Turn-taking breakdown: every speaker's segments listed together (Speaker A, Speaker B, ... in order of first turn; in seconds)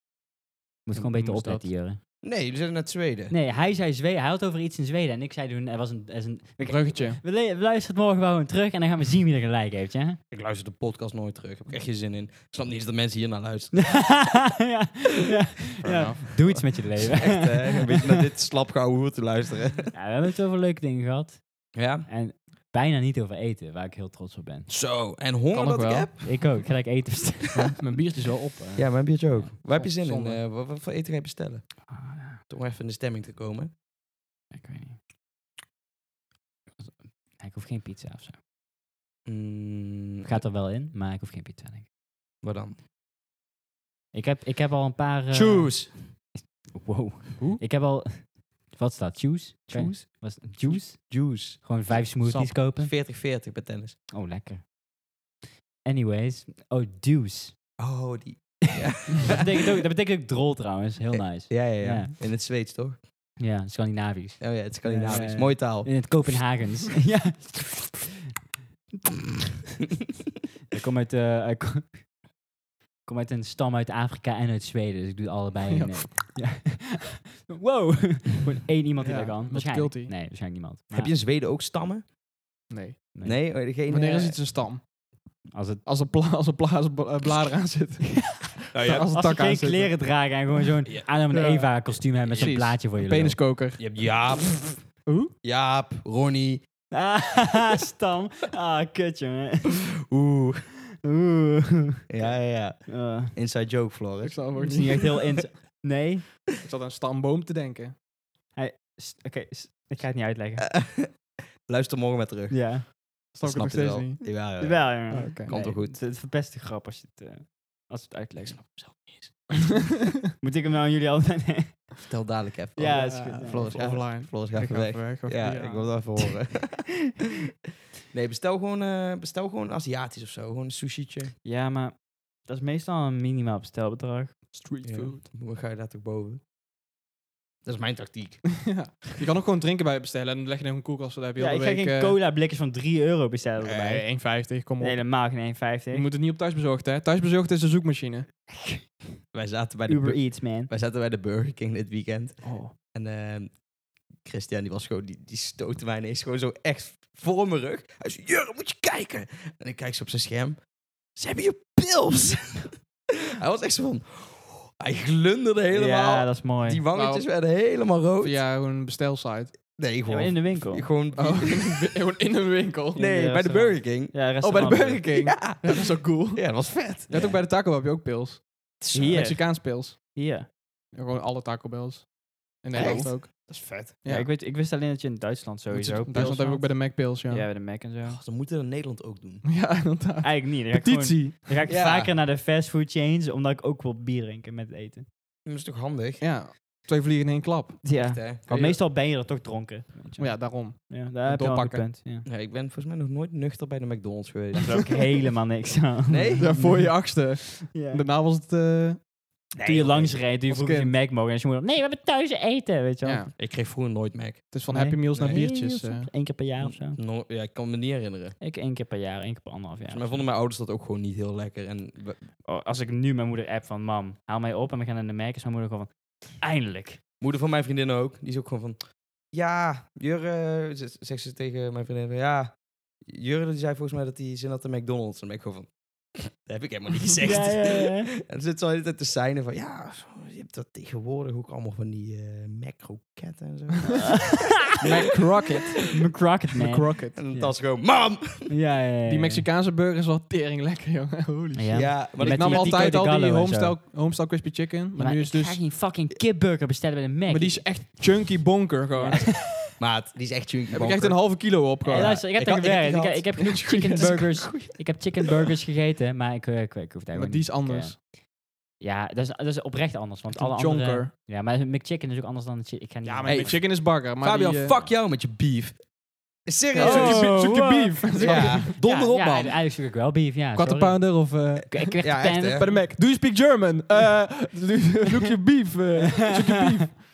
Speaker A: 0.9-2.0, 3.3-10.2, 13.7-18.1, 19.9-24.7, 26.2-27.8, 31.9-32.4, 34.5-35.0, 36.8-38.4, 40.2-41.9, 44.1-52.9, 54.1-54.7, 55.8-57.6, 59.0-62.2, 63.4-68.1, 70.7-72.1, 73.0-81.1, 85.5-85.8, 89.1-93.5, 96.9-99.9, 101.0-103.3, 104.5-106.4, 108.5-110.8, 112.5-112.9, 114.6-119.1, 120.4-122.1, 122.8-123.7, 131.4-134.5, 141.4-146.1, 148.5-148.8, 149.9-150.7, 165.7-166.8, 170.1-170.9, 172.9-175.3, 177.1-177.4, 178.9-180.5, 182.7-183.1, 184.1-188.2, 190.2-195.1, 197.8-202.3, 204.6-208.0, 209.6-213.3, 214.7-217.0, 218.4-220.3, 222.4-227.0, 237.2-238.1, 244.1-244.7, 245.9-249.4, 251.6-253.8, 254.9-258.1, 259.0-259.5, 261.8-268.2, 268.8-273.6, 276.8-282.8, 286.1-286.6
Speaker B: 0.9-1.7, 6.6-7.2, 15.8-16.6, 25.5-26.1, 27.6-30.4, 52.2-52.5, 75.7-76.2, 79.0-80.1, 82.7-83.1, 83.9-84.9, 85.8-90.1, 91.3-94.2, 95.0-95.3, 104.2-105.3, 106.6-108.0, 113.3-114.4, 115.1-115.5, 122.9-125.9, 134.5-135.2, 138.6-142.2, 143.8-145.2, 145.9-148.3, 152.4-152.7, 166.9-167.3, 168.2-169.6, 171.1-173.0, 174.4-180.1, 180.9-184.3, 185.7-187.5, 189.4-191.4, 196.2-198.8, 200.2-201.9, 206.4-209.0, 210.5-210.9, 213.0-213.3, 214.5-216.1, 244.8-245.9, 246.5-247.2, 249.1-255.7, 257.3-259.4, 260.7-262.2, 263.9-264.2, 267.1-267.9, 270.4-271.1, 273.0-274.8, 276.7-278.7, 280.6-287.0
Speaker C: 2.2-3.4, 10.3-14.2, 16.4-19.9, 21.7-22.1, 24.7-26.6, 28.8-33.7, 39.3-40.4, 42.4-42.8, 45.3-46.1, 49.7-52.0, 52.7-54.0, 57.8-59.6, 61.2-63.0, 64.4-66.1, 80.9-82.0, 83.2-84.4, 88.7-89.1, 92.2-92.6, 93.8-94.9, 95.4-96.6, 100.1-100.6, 102.1-104.9, 110.6-116.0, 118.5-119.7, 122.1-127.1, 128.1-131.3, 134.8-136.4, 137.6-138.6, 143.6-144.0, 149.3-153.6, 154.2-160.6, 161.1-162.7, 163.4-168.4, 169.7-171.8, 172.9-174.1, 175.1-177.2, 178.8-179.4, 182.7-183.9, 188.1-189.4, 191.7-192.1, 195.4-196.2, 197.9-198.7, 202.2-205.1, 206.1-206.5, 209.5-210.2, 213.4-214.5, 215.1-215.4, 216.6-218.4, 219.9-222.3, 227.2-245.6, 247.1-248.5, 251.7-253.1, 259.1-265.1, 273.3-275.9, 276.4-277.4, 278.2-279.6, 282.0-282.7